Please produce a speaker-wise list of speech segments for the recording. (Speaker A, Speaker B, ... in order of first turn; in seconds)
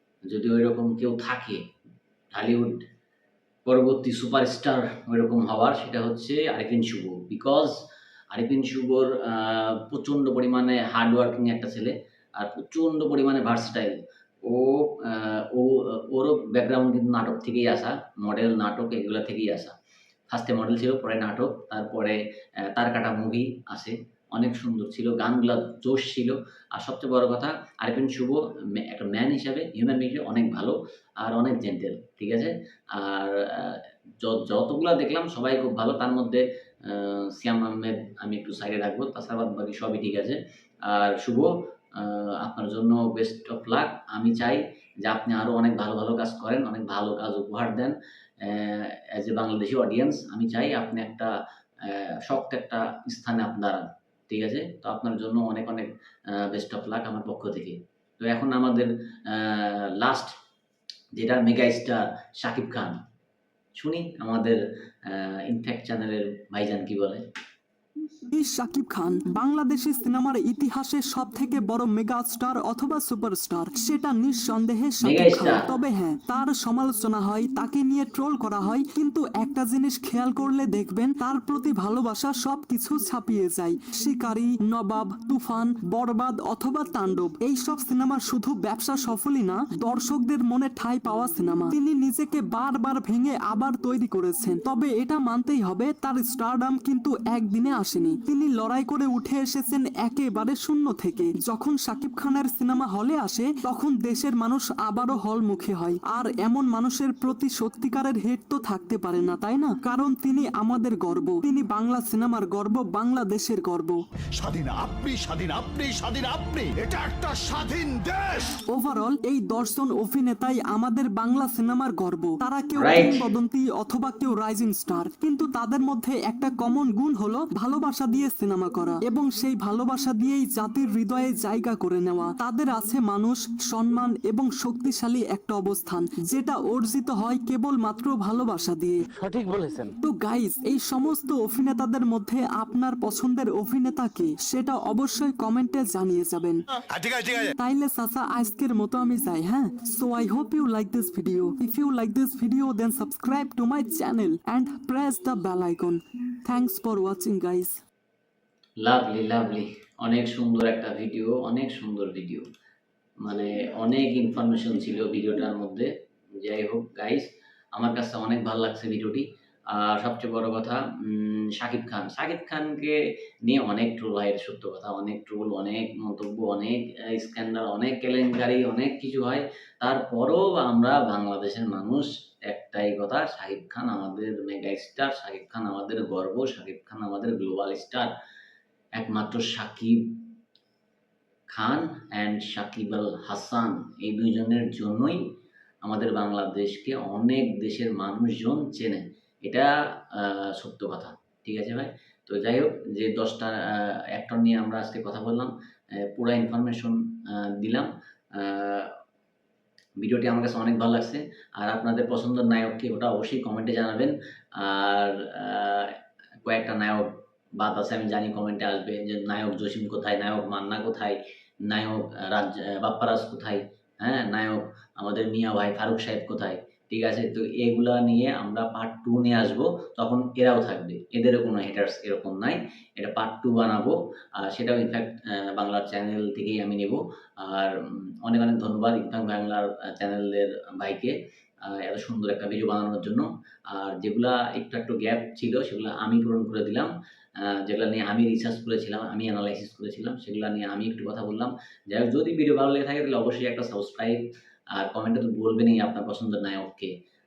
Speaker A: 0.3-1.6, 2.3-2.8, 3.7-7.8, 8.3-19.8, 20.3-51.3, 51.8-60.4, 61.2-63.0, 63.8-67.2, 75.0-75.6, 122.8-123.2, 158.8-162.4, 163.2-165.9, 166.4-188.1, 189.0-190.2, 191.5-195.2, 195.8-208.9, 210.0-246.9, 247.4-254.2, 254.7-256.9
Speaker B: 68.3-114.0, 118.7-139.1, 140.0-146.6, 147.6-157.8
Speaker C: 114.4-118.4, 147.0-147.4